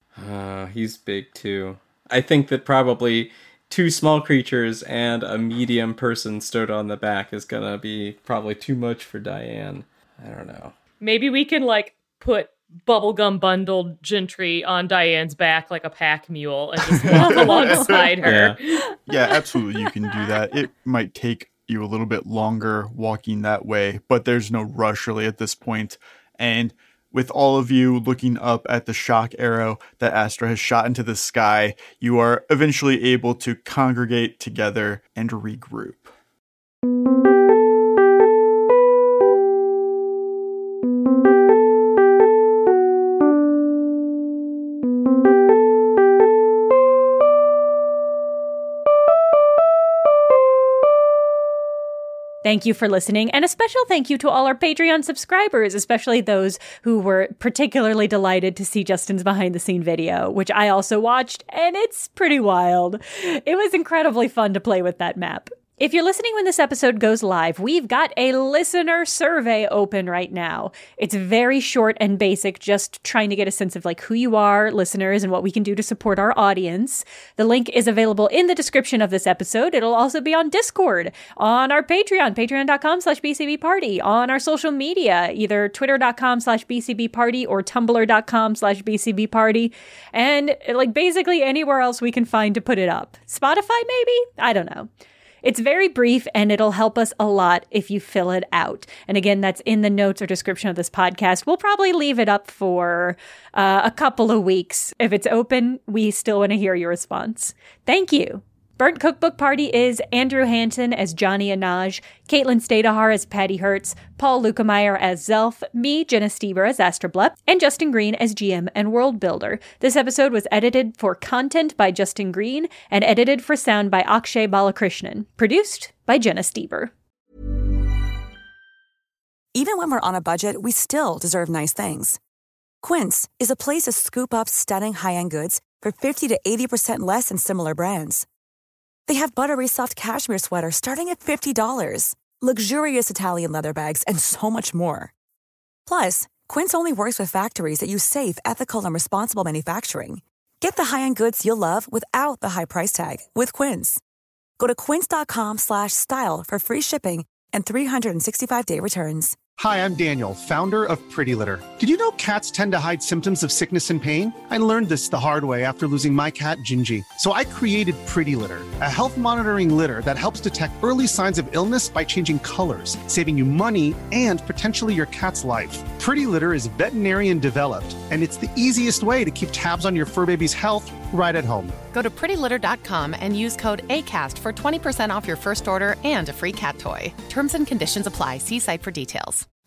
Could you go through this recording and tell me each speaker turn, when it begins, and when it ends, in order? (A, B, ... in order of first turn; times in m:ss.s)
0:00.2-0:10.8 A
0:11.0-0:18.8 B
0:17.0-0:18.1 C
0:17.2-0:18.0 D
0:18.2-0:18.6 A
0:19.1-0:36.1 C
0:52.4-1:34.9 D
1:35.4-2:06.9 D
2:09.6-2:12.2 E
2:12.8-2:18.3 E
2:19.1-2:25.1 E
2:25.9-2:34.0 E
2:34.6-2:39.5 E
2:39.6-3:01.8 F
3:01.9-3:09.5 G